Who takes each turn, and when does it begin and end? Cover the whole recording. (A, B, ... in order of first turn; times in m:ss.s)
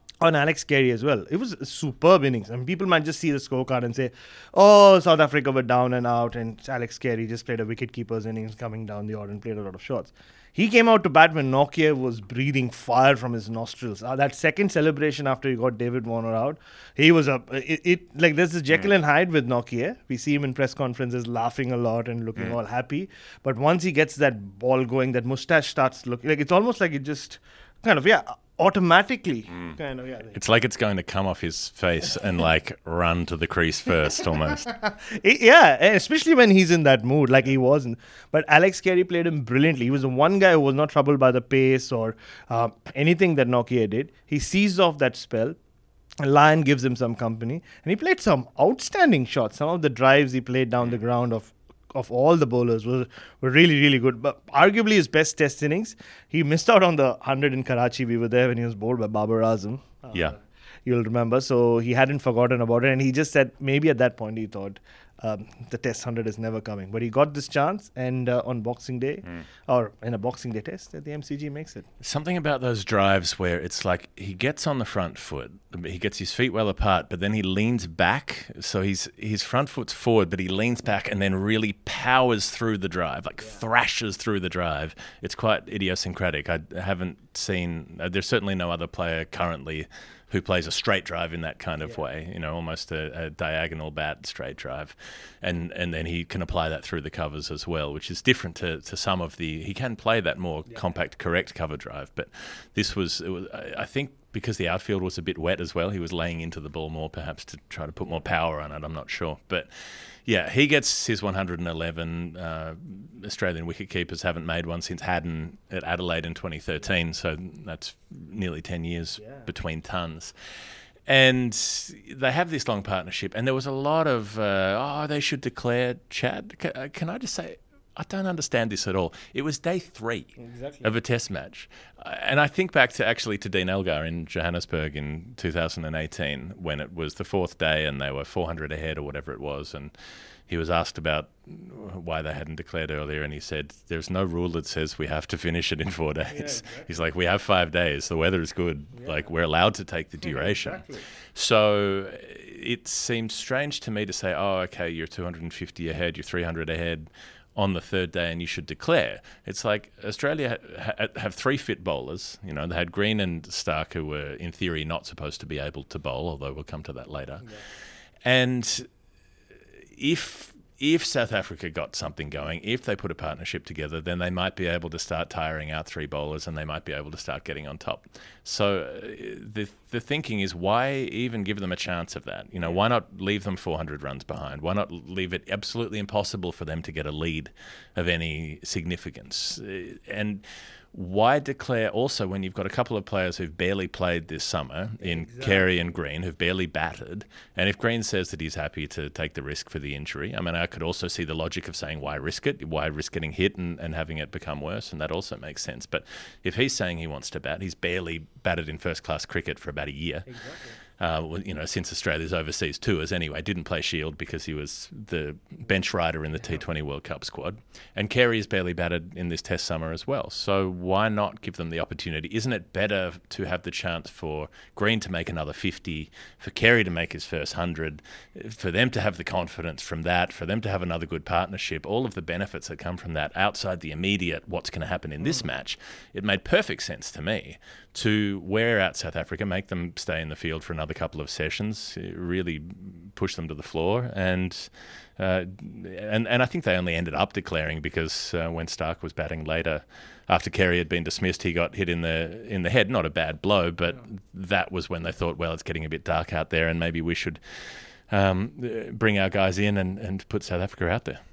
0:00.2-0:30.4 A
0:30.3-0:34.7 B
0:34.6-0:45.6 A
0:46.2-1:11.9 A
1:00.1-1:00.4 B
1:12.0-2:00.3 B
1:59.2-1:59.5 A
2:01.0-2:19.9 B
2:10.4-2:10.9 A
2:20.5-2:47.5 B
2:26.3-2:26.9 A
2:28.9-2:29.3 A
2:30.2-2:31.0 A
2:48.2-2:48.9 B
2:49.9-3:30.3 B
3:15.0-3:15.7 A
3:30.3-3:30.8 A
3:31.0-4:17.4 B
4:18.1-4:21.2 B